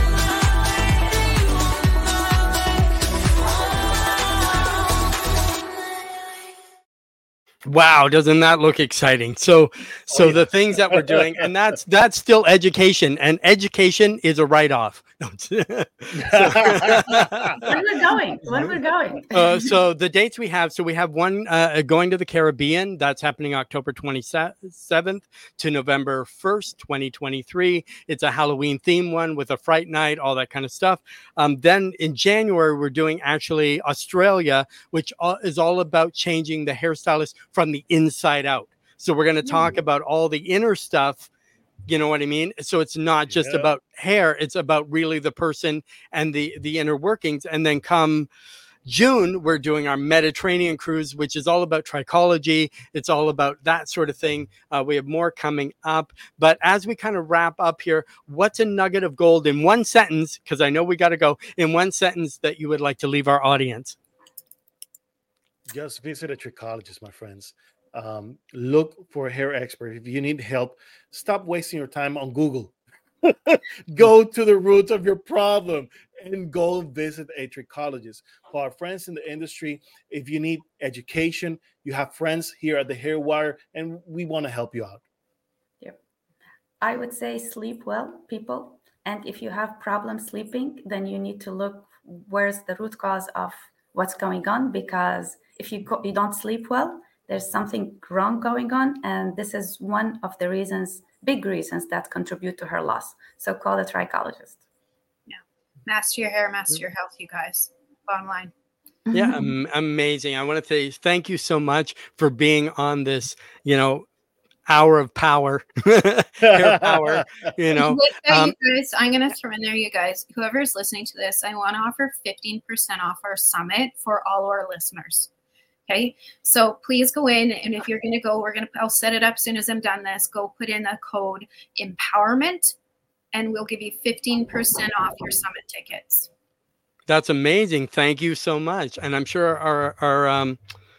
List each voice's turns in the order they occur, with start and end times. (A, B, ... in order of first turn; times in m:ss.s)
0:07.6-0:17.6 A
0:10.1-0:11.5 B
0:16.2-0:17.6 B
0:17.6-0:19.7 C
0:19.3-0:41.3 A
0:41.9-0:48.3 A
0:43.3-0:43.7 B
0:48.8-1:04.0 A
1:05.7-1:25.0 B
1:26.8-1:44.6 C
1:45.3-1:48.5 D
1:49.1-1:49.5 C
1:49.1-1:54.1 A
1:54.6-1:58.5 A
1:56.4-1:57.3 B
1:57.8-2:05.3 D
2:05.9-2:12.7 D
2:13.3-2:16.3 D
2:17.1-2:20.6 A